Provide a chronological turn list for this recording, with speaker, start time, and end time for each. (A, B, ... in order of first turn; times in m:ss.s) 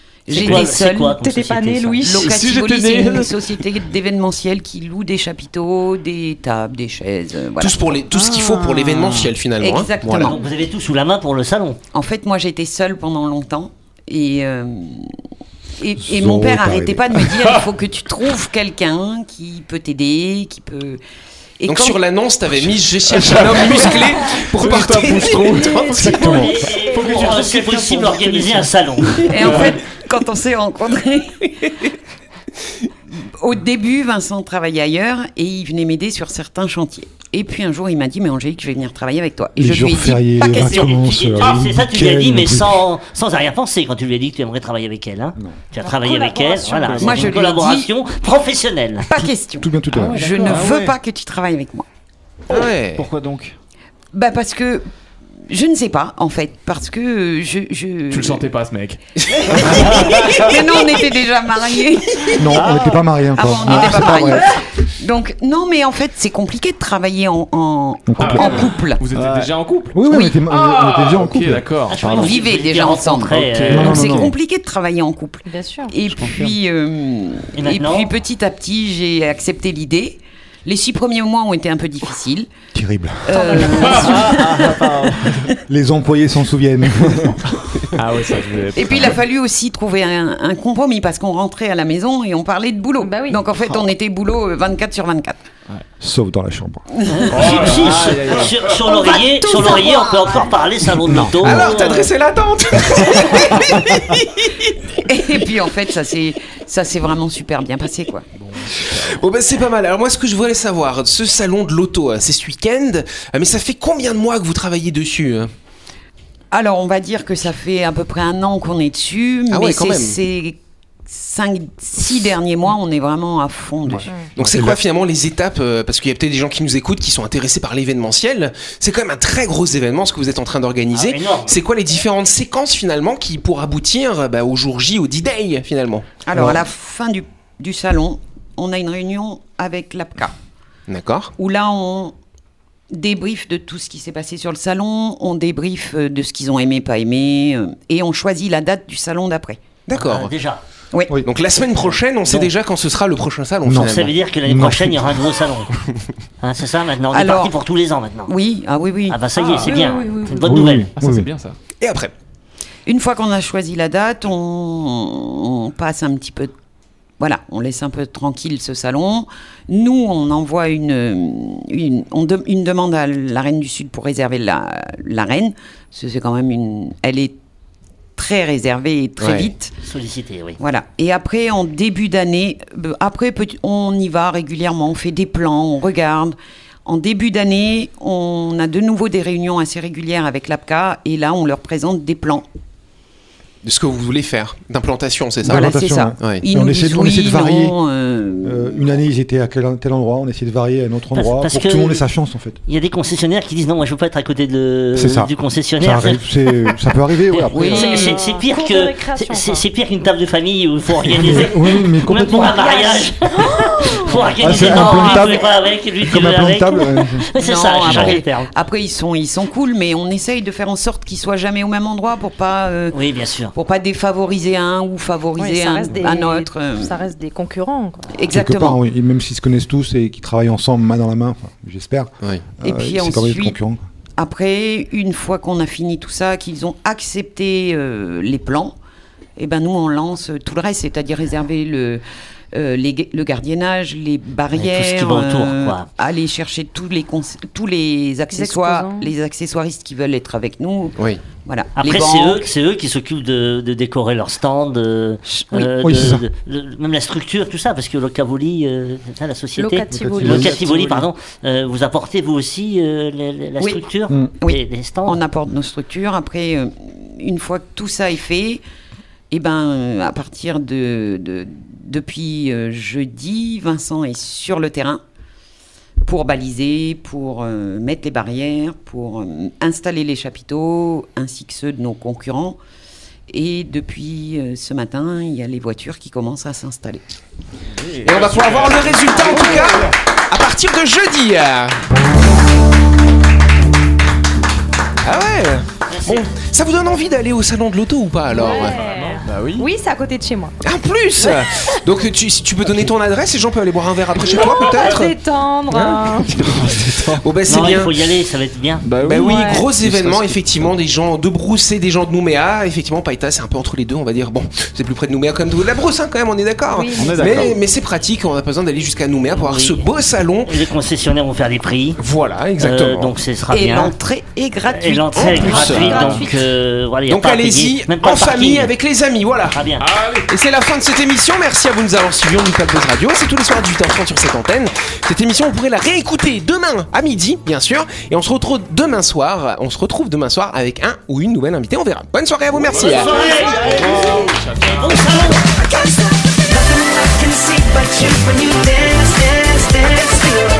0:00.3-0:01.2 A
0:00.3-0:02.2 B
0:00.4-0:00.6 C
0:01.1-0:02.3 D
0:02.0-0:08.0 A
0:02.2-0:03.5 C
0:07.6-0:10.4 E
0:08.1-0:09.3 F
0:09.6-0:10.4 A
0:10.2-0:11.8 B
0:11.9-0:15.2 A
0:15.8-0:21.0 A
0:16.0-0:17.4 G
0:21.6-0:22.0 A
0:21.7-0:26.3 E
0:23.0-0:25.9 C
0:25.4-0:27.3 D
0:26.0-0:26.5 G
0:26.0-0:29.7 B
0:26.2-0:29.2 F
0:29.2-0:31.9 A
0:29.4-0:29.8 C
0:33.2-0:41.0 A
0:39.6-0:42.8 G
0:40.4-0:49.2 B
0:45.8-0:47.3 D
0:47.0-0:47.9 A
0:49.0-0:51.8 A
0:49.6-0:50.3 G
0:50.1-0:50.7 D
0:50.4-0:50.8 C
0:50.5-0:50.9 F
0:52.5-0:53.1 E
0:52.5-0:53.6 F
0:54.1-0:54.9 A
0:55.5-0:58.4 A
0:58.1-0:59.0 C
0:59.5-1:02.8 A
0:59.7-1:00.3 C
0:59.9-1:00.5 F
1:02.4-1:04.5 G
1:02.5-1:03.0 F
1:03.3-1:09.0 A
1:03.7-1:04.2 F
1:08.1-1:08.7 G
1:08.2-1:12.0 C
1:09.1-1:09.6 F
1:09.9-1:11.7 G
1:10.1-1:10.4 A
1:11.9-1:12.4 F
1:11.9-1:14.2 B
1:12.2-1:22.5 A
1:13.3-1:14.2 C
1:13.7-1:14.3 G
1:15.4-1:16.0 D
1:16.1-1:16.6 F
1:17.6-1:18.1 B
1:22.7-1:23.4 G
1:23.2-1:25.2 A
1:23.3-1:24.5 D
1:24.0-1:25.5 F
1:25.6-1:27.8 G
1:28.0-1:29.1 C
1:28.0-1:28.9 F
1:28.7-1:35.4 A
1:33.0-1:33.4 D
1:36.0-1:36.9 G
1:37.0-1:37.4 A
1:37.2-1:42.1 B
1:37.3-1:38.8 C
1:37.6-1:38.6 F
1:39.0-1:40.2 A
1:41.0-1:41.9 G
1:41.4-1:45.0 E
1:45.0-1:48.3 A
1:48.4-1:49.1 G
1:48.6-1:55.5 E
1:56.5-2:04.1 A
1:59.5-2:00.2 E
2:03.9-2:04.8 G
2:04.4-2:16.1 E
2:10.9-2:11.6 B
2:16.2-2:20.4 A
2:16.3-2:16.6 G
2:20.9-2:21.3 E
2:21.4-2:22.1 A
2:22.9-2:29.6 A
2:29.9-2:30.3 E
2:29.9-2:30.6 B
2:30.9-2:31.2 A
2:31.2-2:34.1 E
2:33.6-2:35.2 G
2:33.8-2:35.7 B
2:36.4-2:38.3 B
2:37.1-2:37.6 A
2:38.3-2:39.2 A
2:39.1-2:40.9 B
2:39.4-2:39.8 C
2:39.5-2:40.6 D
2:40.3-2:41.3 G
2:40.7-2:41.6 C
2:41.8-2:42.1 E
2:42.9-2:46.5 A
2:47.2-2:57.4 A
2:58.2-2:59.7 A
2:59.2-2:59.5 E
2:59.8-3:00.6 B
3:00.6-3:12.4 A
3:13.6-3:16.4 E
3:15.4-3:17.8 G
3:15.5-3:18.9 A
3:18.4-3:22.6 G
3:21.1-3:22.0 B
3:22.7-3:26.8 B
3:24.9-3:27.8 G
3:27.3-3:38.5 B
3:27.5-3:28.2 A
3:27.6-3:29.7 D
3:31.1-3:32.6 G
3:32.6-3:35.3 D
3:34.4-3:35.5 G
3:36.0-3:37.3 G
3:37.4-3:43.0 A
3:37.8-3:38.2 G
3:42.9-3:43.5 B
3:43.5-3:47.0 A
3:45.4-3:48.2 D
3:48.1-3:48.8 A
3:48.3-3:53.8 G
3:52.6-3:53.6 A
3:54.2-3:58.8 A
3:59.4-4:12.5 A
4:04.6-4:05.9 B
4:08.3-4:09.1 D
4:11.0-4:11.2 E
4:11.8-4:25.2 B
4:15.3-4:15.7 A
4:15.8-4:16.2 G
4:19.6-4:20.7 D
4:20.0-4:20.6 G
4:20.5-4:20.8 F
4:24.4-4:28.6 A
4:29.3-4:35.0 A
4:36.0-4:42.6 A
4:43.3-4:47.0 A
4:47.8-4:50.0 F
4:48.0-4:51.8 E
4:48.2-4:49.4 C
4:55.0-4:58.8 E
4:55.9-4:56.3 B
4:58.3-5:00.5 D
4:58.4-4:59.2 B
4:59.2-4:59.7 F
5:00.6-5:05.2 E
5:04.7-5:06.3 D
5:05.7-5:08.0 E
5:06.2-5:07.3 F
5:07.5-5:08.9 B
5:08.8-5:10.8 F
5:09.0-5:20.6 E
5:09.2-5:09.7 D
5:16.6-5:17.6 D
5:17.0-5:17.6 F
5:19.3-5:19.9 B
5:20.5-5:22.0 B
5:22.0-5:23.1 E
5:22.6-5:23.9 B
5:23.5-5:26.2 A
5:24.7-5:28.7 B
5:25.2-5:26.2 E
5:25.4-5:26.4 D
5:27.1-5:29.6 E
5:29.5-5:29.8 B
5:29.8-5:30.3 C
5:30.3-5:43.2 E
5:42.6-5:45.2 C
5:42.7-5:45.4 B
5:43.4-5:44.3 F